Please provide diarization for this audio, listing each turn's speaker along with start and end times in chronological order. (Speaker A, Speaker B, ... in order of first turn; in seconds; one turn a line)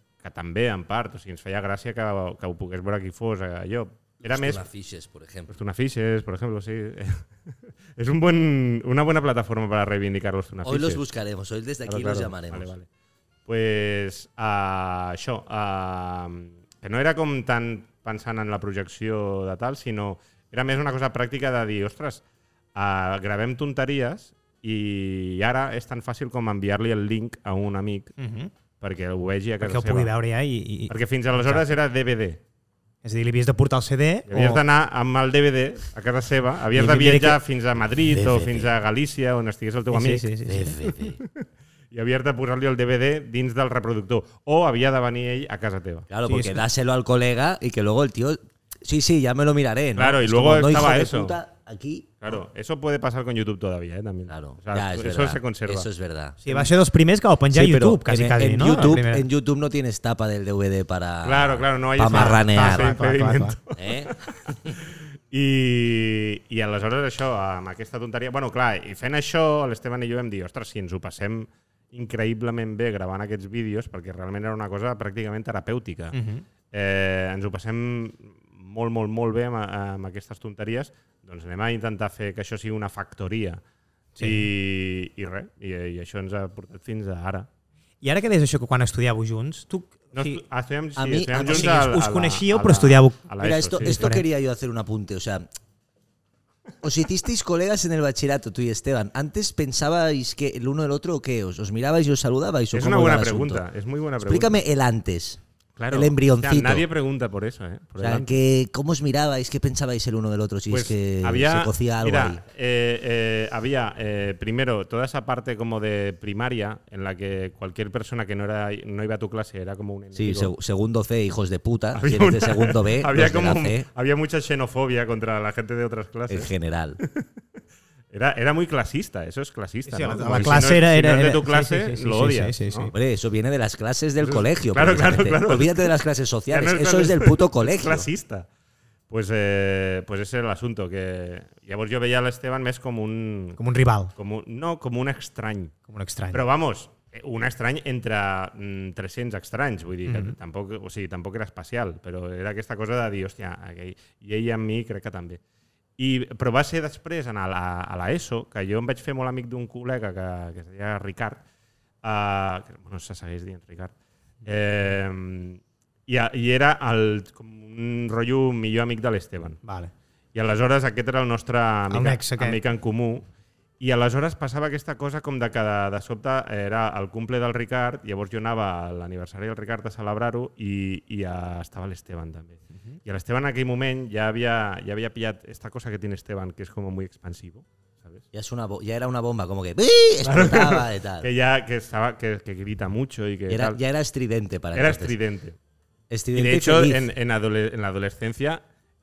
Speaker A: 0.2-4.6
Speaker B: 4.2-5.5
Speaker A: 5.5-7.2
Speaker A: 8.0-11.0
Speaker B: 10.6-12.7
Speaker A: 11.9-12.8
Speaker A: 13.4-22.2
Speaker A: 22.7-28.1
Speaker C: 28.2-28.5
Speaker A: 28.8-30.1
Speaker C: 29.6-31.6
Speaker A: 30.9-32.4
Speaker C: 33.0-34.6
Speaker A: 34.3-40.3
Speaker C: 36.7-37.4
Speaker B: 38.0-38.7
Speaker C: 39.9-40.8
Speaker B: 40.5-41.2
Speaker A: 40.8-46.1
Speaker B: 46.1-52.1
Speaker C: 46.2-46.6
Speaker A: 50.0-51.4
Speaker A: 52.2-55.9
Speaker B: 54.3-56.4
Speaker C: 56.4-59.2
Speaker B: 57.5-62.9
Speaker A: 61.2-76.2
Speaker C: 62.1-63.5
Speaker B: 63.7-64.1
Speaker C: 76.1-76.4
Speaker A: 76.7-83.6
Speaker C: 84.2-84.5
Speaker A: 84.2-87.5
Speaker C: 88.0-90.4
Speaker A: 90.1-94.1
Speaker B: 91.0-91.8
Speaker C: 91.4-93.2
Speaker B: 93.4-95.5
Speaker C: 93.8-94.2
Speaker B: 96.8-103.6
Speaker A: 102.7-104.6
Speaker B: 104.2-106.8
Speaker A: 105.8-108.4
Speaker B: 108.0-112.4
Speaker A: 110.7-120.5
Speaker B: 120.1-123.8
Speaker A: 121.9-127.2
Speaker B: 126.3-127.0
Speaker A: 128.1-132.9
Speaker C: 129.9-132.9
Speaker B: 132.9-138.1
Speaker A: 134.2-135.9
Speaker A: 136.5-138.5
Speaker A: 139.1-143.6
Speaker C: 143.6-144.1
Speaker A: 144.2-145.7
Speaker C: 145.9-146.4
Speaker A: 146.3-155.4
Speaker C: 150.1-150.3
Speaker A: 156.0-161.4
Speaker A: 162.0-163.9
Speaker A: 164.4-169.6
Speaker C: 169.6-169.9
Speaker A: 170.3-173.3
Speaker C: 171.9-172.6
Speaker A: 173.8-188.2
Speaker B: 188.3-191.3
Speaker A: 190.2-193.8
Speaker B: 193.5-195.2
Speaker A: 194.7-195.6
Speaker B: 196.1-197.0
Speaker A: 196.3-198.6